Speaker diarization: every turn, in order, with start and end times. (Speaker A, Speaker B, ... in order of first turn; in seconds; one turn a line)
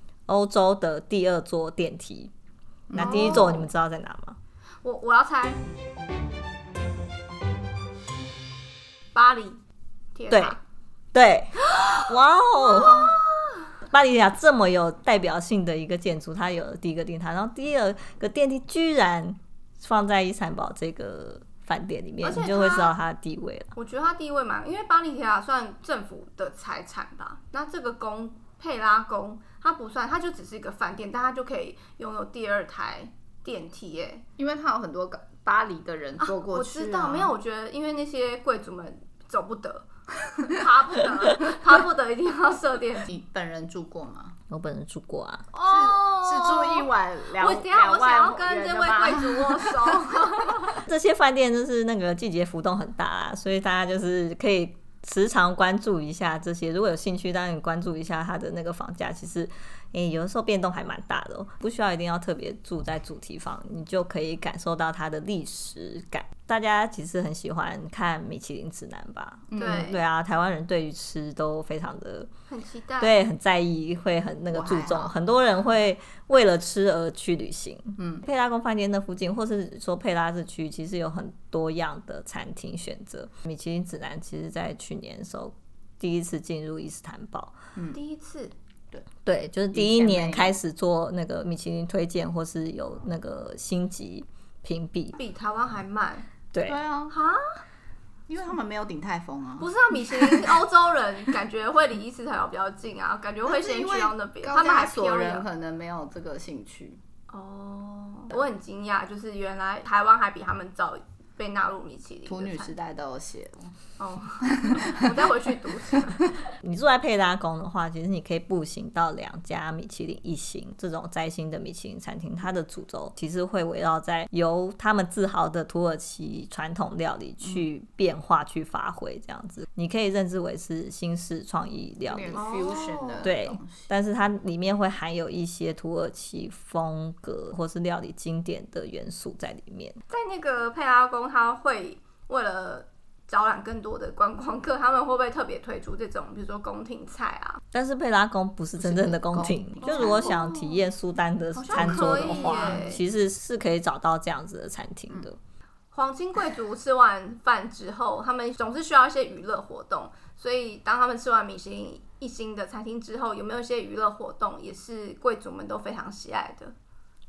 Speaker A: 0.3-2.3
Speaker B: 2.9-3.7
Speaker C: 2.9-3.7
Speaker A: 2.9-4.4
Speaker C: 4.8-5.6
Speaker C: 9.1-9.6
Speaker C: 10.2-10.6
Speaker A: 10.3-10.6
Speaker A: 11.1-13.1
Speaker C: 11.7-12.0
Speaker C: 12.6-13.7
Speaker B: 12.8-13.1
Speaker A: 13.9-23.7
Speaker C: 22.2-23.0
Speaker C: 23.8-34.2
Speaker B: 34.4-37.4
Speaker C: 36.2-43.1
Speaker B: 43.1-44.4
Speaker A: 44.5-45.5
Speaker C: 45.5-50.8
Speaker B: 45.6-50.2
Speaker A: 50.8-72.3
Speaker B: 69.5-69.9
Speaker C: 69.6-70.0
Speaker C: 72.5-73.1
Speaker A: 73.0-87.6
Speaker B: 74.5-75.2
Speaker B: 78.0-78.2
Speaker C: 87.9-88.5
Speaker A: 89.2-95.2
Speaker B: 89.7-90.6
Speaker C: 95.2-96.3
Speaker A: 96.5-96.8
Speaker B: 96.7-97.1
Speaker C: 97.1-97.6
Speaker B: 98.3-100.6
Speaker C: 99.6-105.5
Speaker B: 103.5-107.0
Speaker C: 107.3-112.7
Speaker B: 112.3-113.8
Speaker C: 114.0-116.3
Speaker A: 116.6-132.6
Speaker B: 132.1-133.9
Speaker C: 132.3-133.3
Speaker A: 133.2-140.0
Speaker C: 140.1-147.6
Speaker A: 147.7-155.4
Speaker B: 148.8-150.4
Speaker C: 149.8-150.8
Speaker C: 151.6-153.0
Speaker B: 151.7-152.8
Speaker C: 155.9-166.8